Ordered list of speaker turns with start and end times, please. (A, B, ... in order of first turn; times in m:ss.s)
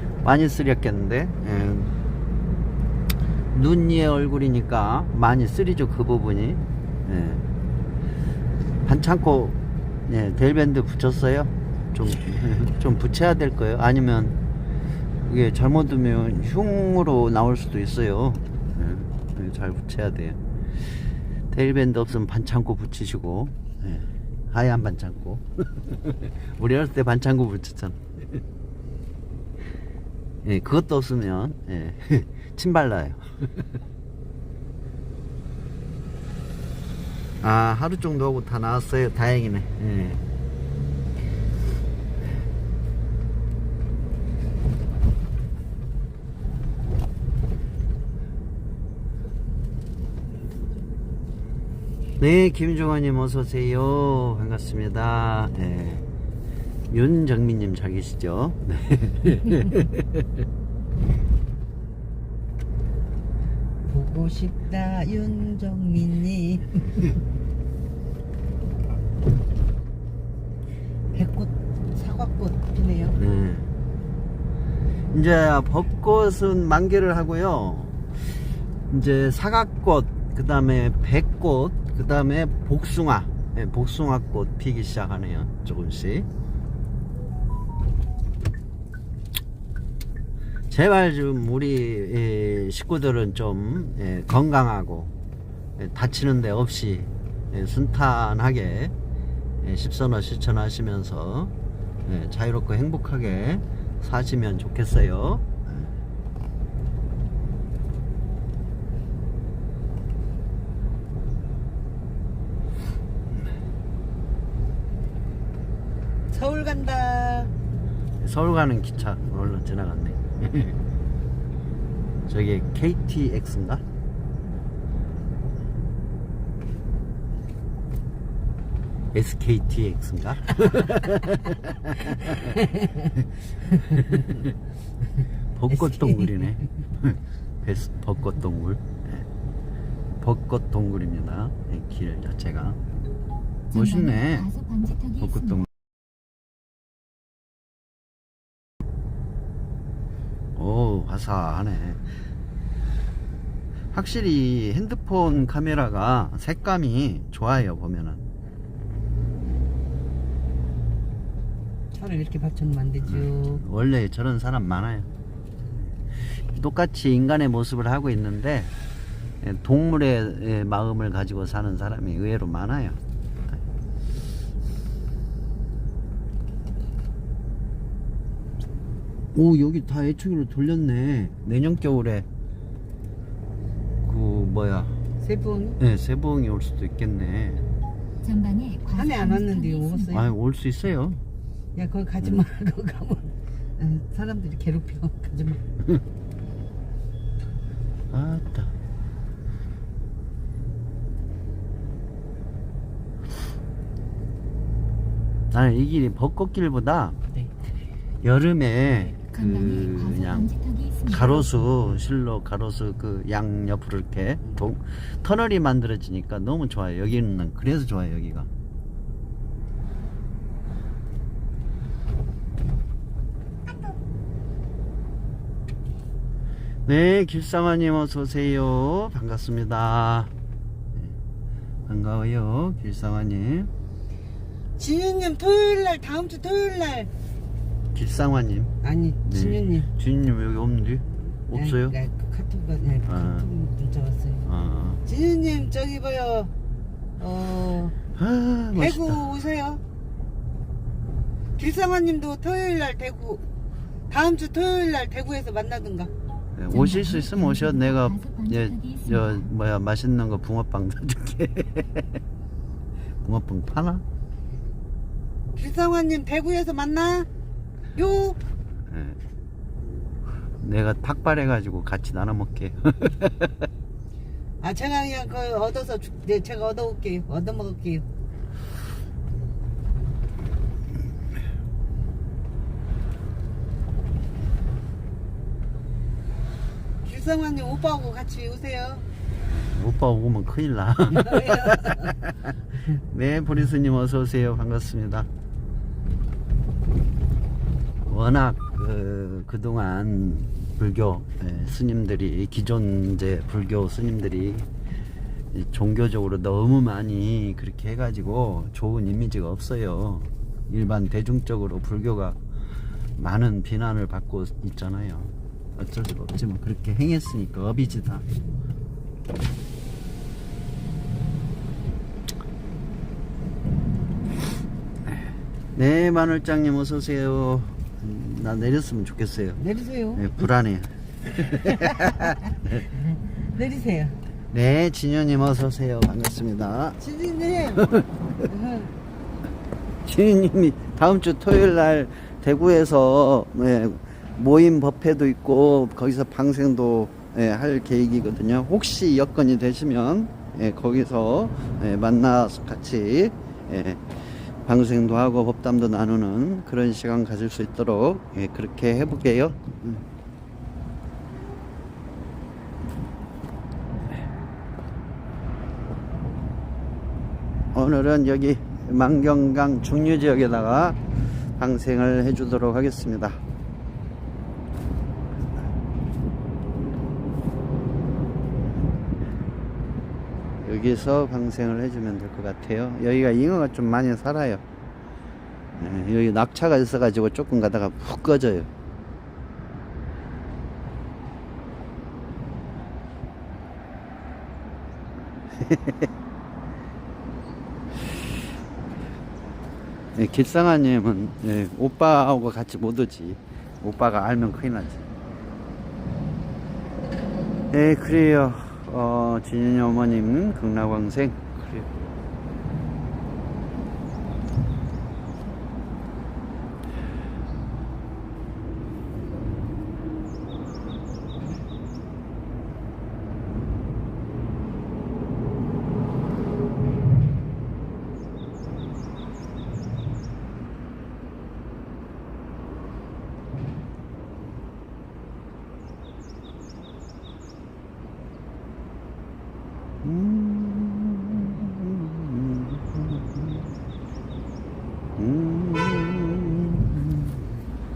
0:00.2-0:01.9 A
0:03.5-0:07.4 A
0:08.8-0:14.4 A
0:15.2-0:20.4 A
0:21.5-0:28.4 A
0:30.4-0:33.6 A
0:37.4-0:40.2 A
0:52.2-0:56.0 A
0:56.9-1:00.3 A
1:03.9-1:07.1 B
1:11.1-1:13.2 B
1:13.2-1:13.7 A
1:15.1-1:18.0 A
1:18.9-1:26.3 A
1:30.7-1:35.1 A
1:35.8-1:38.9 A
1:39.6-1:41.5 A
1:42.0-1:45.6 A
1:56.3-1:57.5 B
1:58.2-2:00.8 A
2:02.3-2:03.8 A
2:09.1-2:12.6 A
2:12.4-2:13.1 B
2:13.8-2:14.1 B
2:13.8-2:14.5 A
2:15.5-2:19.2 A
2:15.7-2:16.5 B
2:20.2-2:22.8 A
2:23.7-2:24.5 A
2:23.7-2:25.6 C
2:25.2-2:25.6 A
2:30.6-2:32.0 A
2:33.9-2:38.2 A
2:41.9-2:43.6 B
2:43.1-2:45.1 A
2:46.5-2:48.7 A
2:49.4-2:53.0 A
2:59.3-3:02.2 A
3:04.0-3:05.0 A
3:05.2-3:05.8 B
3:05.8-3:07.6 A
3:08.2-3:10.2 C
3:08.9-3:10.3 B
3:10.1-3:11.2 A
3:11.7-3:15.6 B
3:18.1-3:18.7 A
3:25.5-3:27.2 A
3:28.2-3:30.5 A
3:29.3-3:31.7 C
3:31.1-3:38.5 A
3:46.8-3:50.3 A
3:51.9-3:53.7 A
3:54.8-3:57.1 B
3:57.9-3:58.7 A
3:58.8-3:59.9 B
3:59.2-4:02.0 A
4:01.5-4:04.5 B
4:03.0-4:03.4 A
4:04.4-4:05.0 A
4:05.0-4:06.5 B
4:07.2-4:07.9 B
4:08.2-4:09.3 A
4:08.8-4:09.8 B
4:11.6-4:13.4 B
4:14.1-4:16.1 B
4:16.6-4:22.1 A
4:16.7-4:19.5 C
4:23.2-4:24.0 A
4:25.5-4:27.3 B
4:27.9-4:28.4 B
4:28.9-4:29.2 A
4:30.6-4:33.7 A
4:34.6-4:38.0 B
4:47.0-4:49.1 B
4:49.5-4:55.3 A
4:51.1-4:52.1 B
4:58.1-5:04.7 A
5:05.5-5:12.4 A
5:13.2-5:18.2 A
5:25.8-5:29.6 A
5:29.6-5:30.3 B
5:30.1-5:32.8 A
5:31.5-5:34.2 B
5:34.5-5:37.0 A
5:37.0-5:38.9 B
5:37.8-5:38.1 A
5:40.0-5:54.0 A
5:54.6-6:00.0 A
6:07.7-6:11.0 A
6:11.6-6:13.4 A
6:20.6-6:24.6 A
6:25.8-6:28.7 A
6:35.6-6:36.1 A
6:40.1-6:45.0 A
6:47.7-6:51.9 A
7:20.0-7:23.6 A
7:25.2-7:27.5 A